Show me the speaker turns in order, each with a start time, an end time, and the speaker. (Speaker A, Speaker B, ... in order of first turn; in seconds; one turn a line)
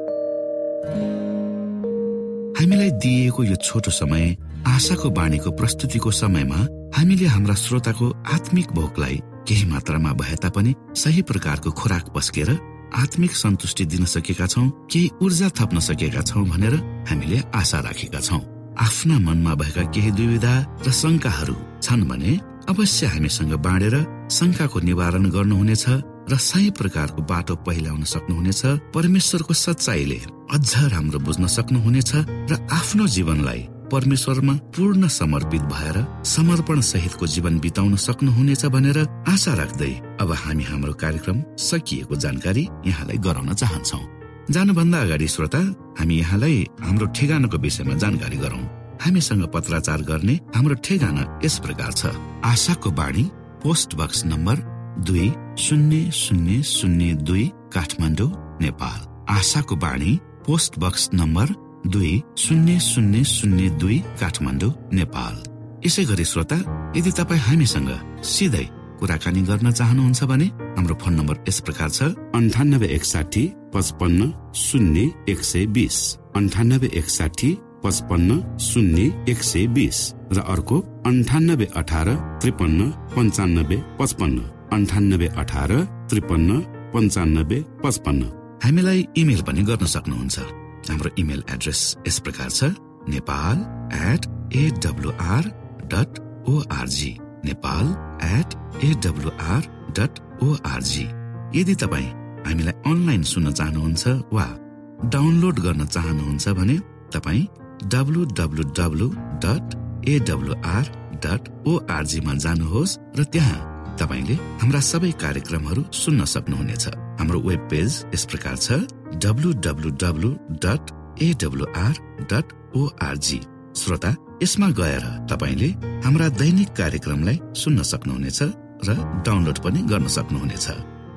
Speaker A: 2.5-130.8